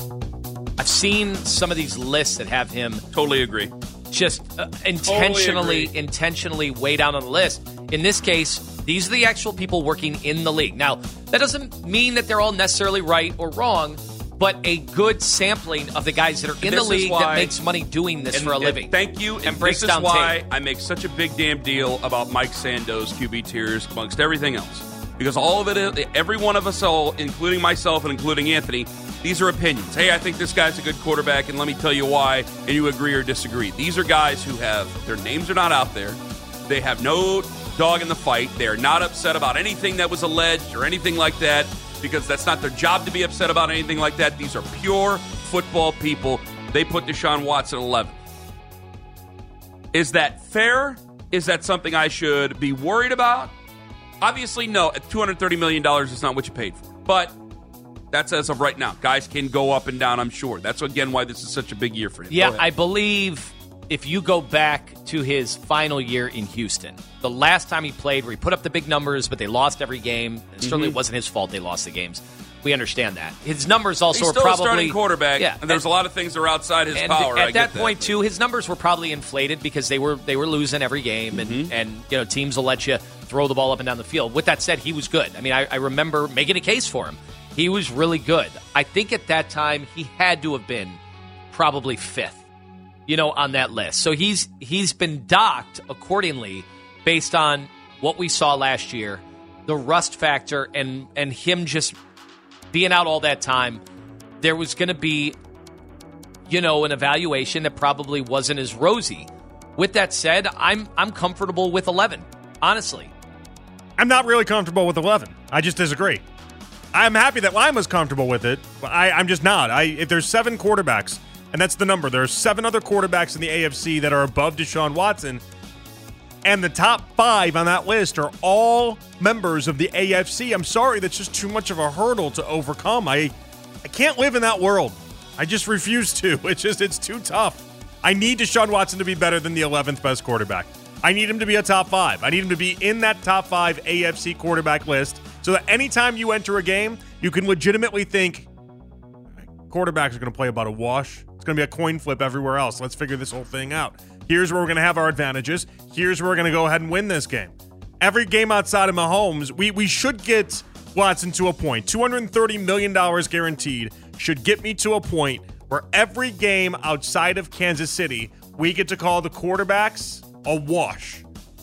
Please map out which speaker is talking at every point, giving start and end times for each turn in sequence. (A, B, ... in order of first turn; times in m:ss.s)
0:00.8-0:03.0 A
0:03.1-0:03.7 B
0:04.1-0:18.9 A
0:05.0-0:05.9 B
0:16.6-0:17.5 B
0:18.3-0:48.2 B
0:19.4-0:20.4 A
0:49.9-0:53.5 B
0:54.2-0:57.4 B
0:58.1-1:02.6 B
1:02.3-1:15.8 A
1:10.6-1:10.9 B
1:14.1-1:18.1 B
1:16.9-1:31.0 A
1:21.3-1:21.7 B
1:31.5-1:32.4 A
1:33.1-1:42.0 A
1:42.7-1:43.8 A
1:44.4-1:45.4 A
1:46.5-1:53.1 A
1:54.0-1:56.2 C
1:56.9-2:05.4 C
2:06.4-2:28.5 C
2:29.3-2:51.2 C